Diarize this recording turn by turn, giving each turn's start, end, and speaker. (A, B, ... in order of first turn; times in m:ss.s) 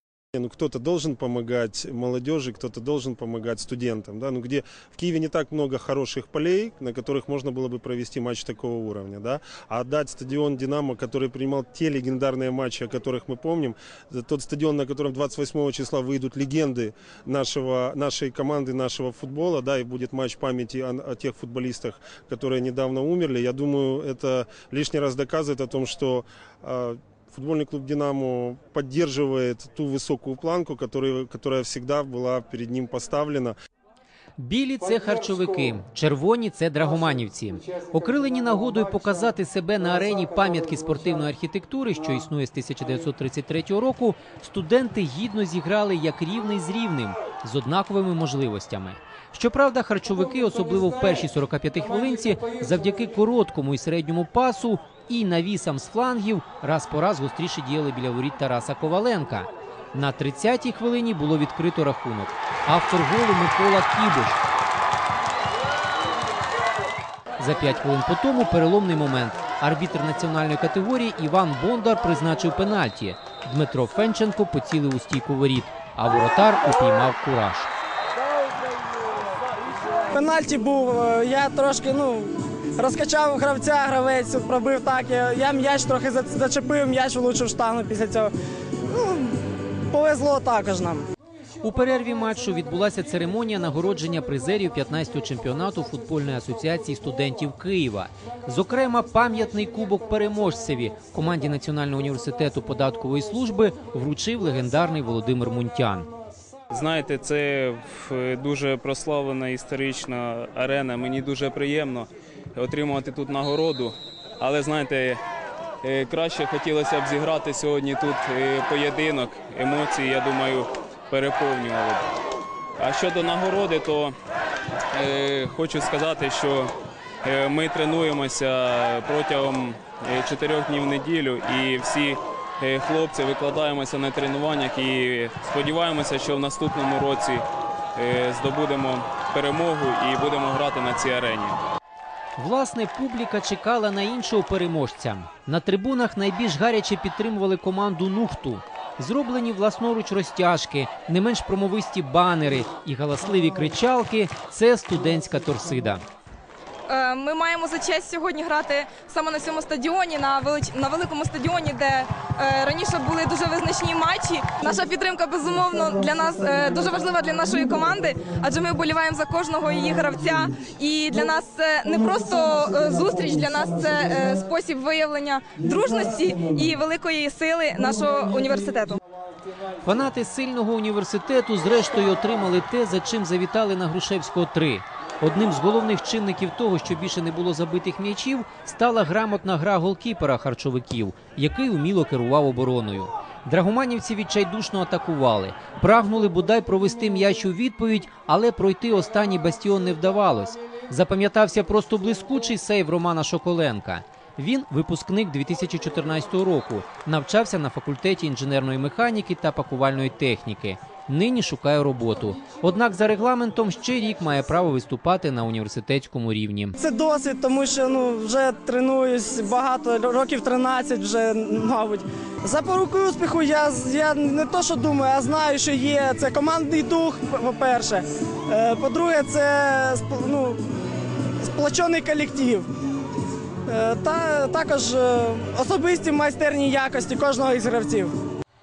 0:00.3-0:33.5 A
0:34.4-1:04.4 B
1:07.4-1:17.7 B
1:20.1-1:28.3 C
1:28.9-1:31.0 C
1:31.6-1:46.1 B
1:46.7-1:55.2 D
1:55.8-2:02.1 D
2:02.8-2:04.1 D
2:04.9-2:06.7 D
2:07.2-2:17.4 D
2:18.0-2:21.6 D
2:22.4-2:36.0 B
2:36.9-2:59.0 E
2:52.6-2:53.6 C
2:59.8-3:36.7 B
3:36.8-3:50.6 C
3:51.4-3:52.7 C
3:53.7-3:58.1 C